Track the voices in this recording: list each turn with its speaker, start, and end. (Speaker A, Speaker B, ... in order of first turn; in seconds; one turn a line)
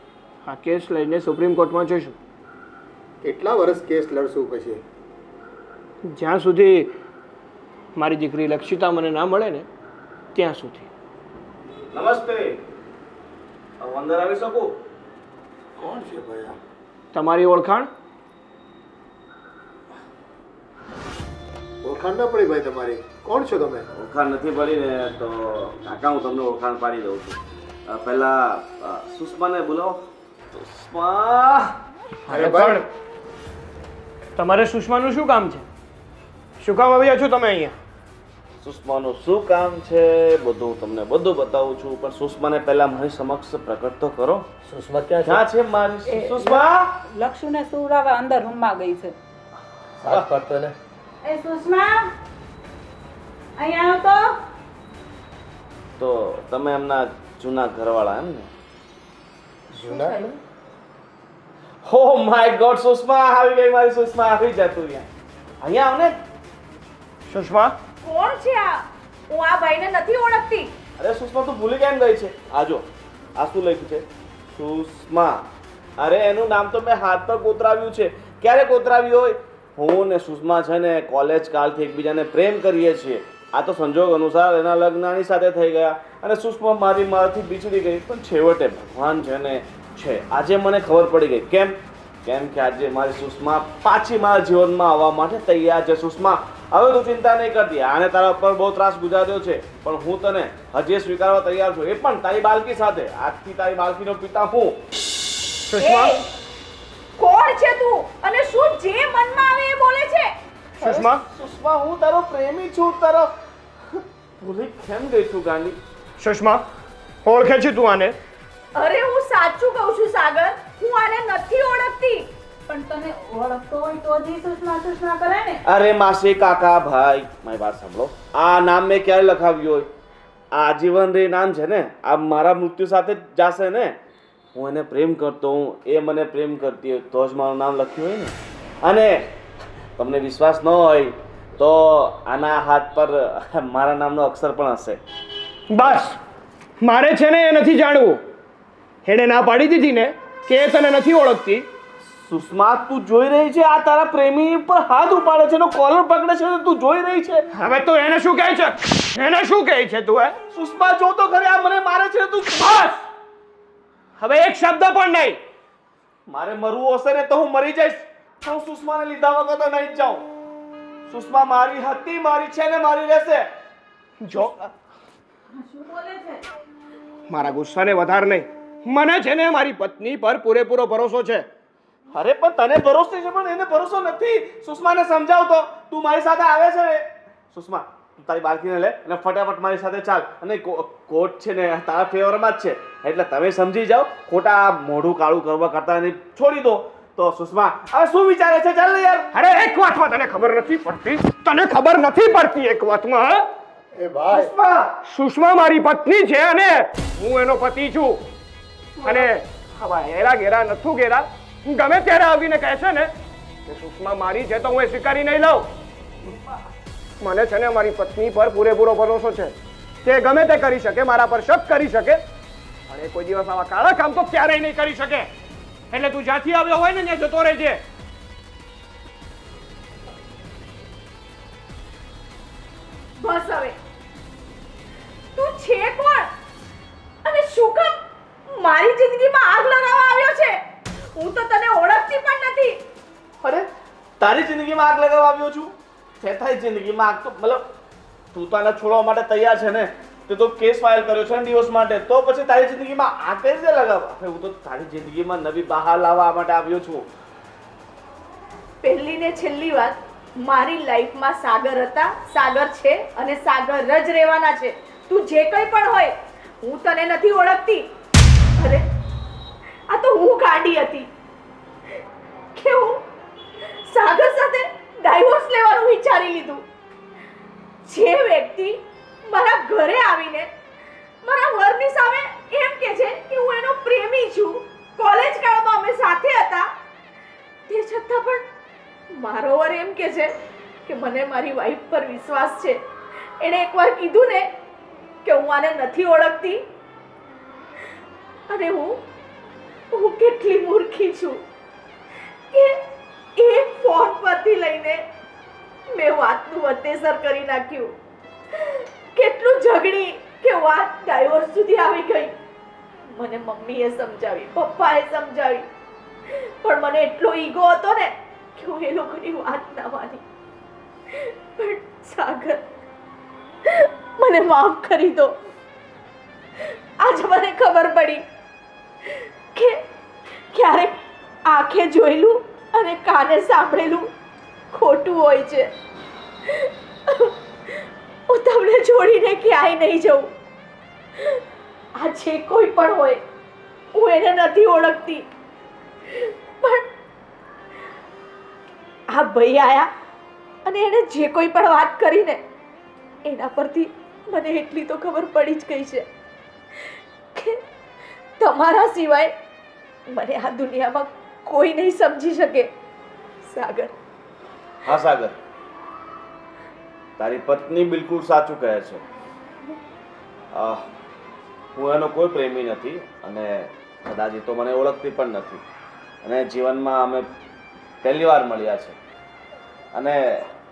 Speaker A: 0.4-2.2
Speaker B: 3.2-4.8
Speaker A: 6.1-6.9
Speaker A: 8.0-9.7
Speaker A: 10.3-10.9
Speaker C: 11.9-12.6
Speaker C: 13.8-14.8
Speaker B: 15.8-16.6
Speaker A: 17.1-17.9
Speaker B: 21.8-23.9
Speaker C: 23.9-31.7
Speaker A: 32.3-32.9
Speaker B: 32.3-32.8
Speaker A: 34.4-35.6
Speaker A: 36.6-37.7
Speaker C: 38.6-44.5
Speaker B: 44.6-45.4
Speaker C: 45.2-47.0
Speaker D: 47.1-49.1
Speaker B: 50.0-50.7
Speaker D: 51.2-51.9
Speaker D: 53.6-54.0
Speaker C: 56.0-58.5
Speaker B: 59.7-60.3
Speaker E: 59.7-60.4
Speaker C: 61.8-65.1
Speaker C: 65.6-66.2
Speaker A: 67.3-67.7
Speaker E: 68.0-70.7
Speaker C: 71.0-72.8
Speaker C: 73.4-75.5
Speaker C: 76.0-104.8
Speaker A: 105.7-106.2
Speaker E: 105.8-106.3
Speaker E: 107.2-110.3
Speaker C: 110.8-113.3
Speaker A: 110.8-111.2
Speaker C: 113.9-115.8
Speaker A: 116.2-116.6
Speaker A: 117.2-118.2
Speaker E: 118.7-122.3
Speaker D: 122.7-125.6
Speaker C: 125.7-129.9
Speaker C: 130.5-133.9
Speaker C: 134.5-139.3
Speaker C: 140.0-145.0
Speaker A: 145.7-146.2
Speaker A: 146.8-148.2
Speaker A: 149.0-151.7
Speaker C: 152.1-157.5
Speaker A: 157.5-160.3
Speaker C: 160.5-162.8
Speaker A: 162.6-163.0
Speaker A: 164.2-165.4
Speaker C: 166.3-170.2
Speaker C: 171.1-173.5
Speaker A: 174.2-174.5
Speaker C: 174.3-174.7
Speaker A: 177.3-181.5
Speaker C: 182.1-199.3
Speaker A: 199.3-203.4
Speaker B: 203.9-204.5
Speaker C: 204.3-204.9
Speaker A: 205.0-208.2
Speaker A: 209.0-213.1
Speaker A: 213.7-215.7
Speaker A: 217.2-222.2
Speaker A: 222.9-225.3
Speaker A: 225.9-227.8
Speaker E: 233.2-233.7
Speaker E: 235.3-236.3
Speaker E: 237.2-238.0
Speaker E: 238.5-240.6
Speaker E: 241.1-242.8
Speaker C: 243.4-243.7
Speaker C: 244.2-247.7
Speaker C: 248.3-257.1
Speaker E: 258.8-267.9
Speaker E: 268.6-268.8
Speaker E: 269.9-271.1
Speaker E: 272.5-273.0
Speaker E: 273.9-276.6
Speaker E: 277.9-280.5
Speaker E: 281.2-286.7
Speaker E: 287.7-288.4
Speaker E: 289.1-290.3
Speaker E: 290.9-292.8
Speaker E: 293.4-294.5
Speaker E: 295.2-296.6
Speaker E: 298.5-299.0
Speaker E: 299.9-301.4
Speaker E: 302.5-302.8
Speaker E: 303.4-305.0
Speaker E: 305.9-307.9
Speaker E: 308.6-312.3
Speaker E: 313.1-315.6
Speaker E: 316.4-320.2
Speaker E: 321.2-322.6
Speaker E: 323.7-325.4
Speaker E: 327.0-328.2
Speaker E: 330.5-334.1
Speaker E: 334.7-335.7
Speaker E: 336.6-337.3
Speaker E: 338.3-340.3
Speaker E: 341.9-343.2
Speaker E: 343.9-345.2
Speaker E: 346.1-346.9
Speaker E: 349.1-349.9
Speaker E: 350.6-352.4
Speaker E: 353.2-356.1
Speaker E: 357.3-357.6
Speaker E: 358.4-359.3
Speaker E: 360.1-362.7
Speaker E: 363.4-363.9
Speaker C: 364.8-365.4
Speaker C: 367.2-369.0
Speaker C: 370.5-370.8
Speaker C: 371.8-375.6
Speaker C: 376.2-377.2
Speaker C: 378.0-378.9
Speaker C: 379.9-380.5